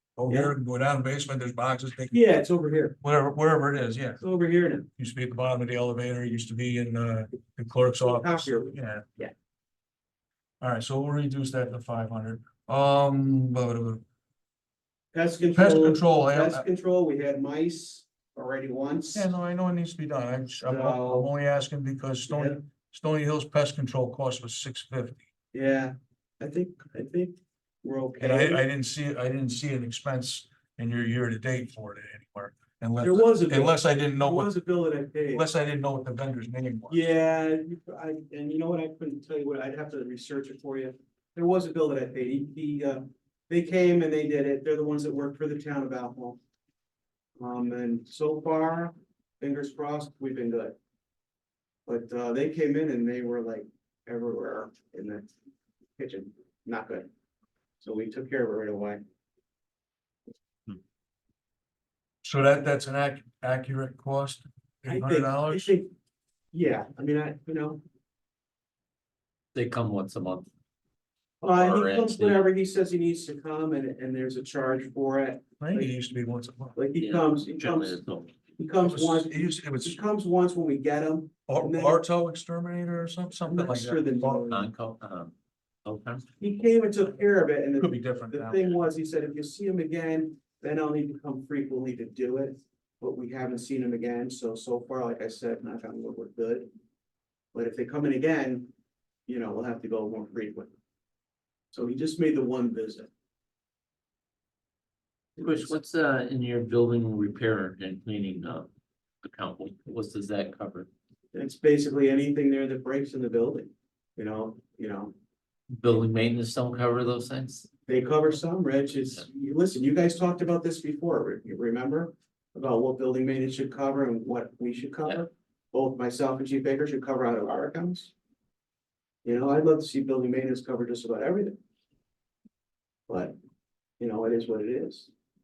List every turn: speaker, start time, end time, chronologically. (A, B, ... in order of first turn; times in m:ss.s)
0:00.2-0:02.2 A
0:00.3-0:00.5 B
0:02.1-0:03.0 B
0:03.0-0:04.2 A
0:04.2-0:04.9 B
0:05.0-0:09.0 A
0:08.0-0:09.3 B
0:10.6-0:14.0 A
0:15.1-0:19.3 B
0:15.5-0:16.6 A
0:19.1-0:25.2 A
0:20.5-0:21.3 B
0:22.3-0:22.6 B
0:25.5-0:28.6 B
0:28.2-0:34.5 A
0:33.0-0:35.4 B
0:35.3-0:37.0 A
0:36.9-0:46.4 B
0:47.4-0:50.8 B
0:51.8-0:55.3 B
0:56.0-0:57.1 B
0:57.8-0:59.0 B
1:02.2-1:05.8 A
1:04.8-1:05.9 B
1:06.5-1:07.8 B
1:09.5-1:10.5 C
1:11.4-1:16.0 B
1:11.5-1:12.4 C
1:15.6-1:16.8 A
1:16.8-1:18.0 B
1:17.0-1:18.3 C
1:18.6-1:22.0 B
1:18.8-1:20.0 A
1:21.5-1:24.5 A
1:23.4-1:24.7 B
1:24.5-1:25.3 C
1:25.8-1:26.2 C
1:26.4-1:36.7 B
1:27.8-1:28.8 A
1:37.5-1:38.7 B
1:39.3-1:40.7 B
1:41.7-1:43.1 B
1:45.4-1:48.7 C
1:45.4-1:45.7 B
1:49.2-1:50.9 C
1:51.3-1:55.1 B
1:55.7-1:57.7 C
1:57.9-2:08.1 B
2:09.2-2:11.6 B
2:13.1-2:13.3 B
2:14.0-2:15.1 B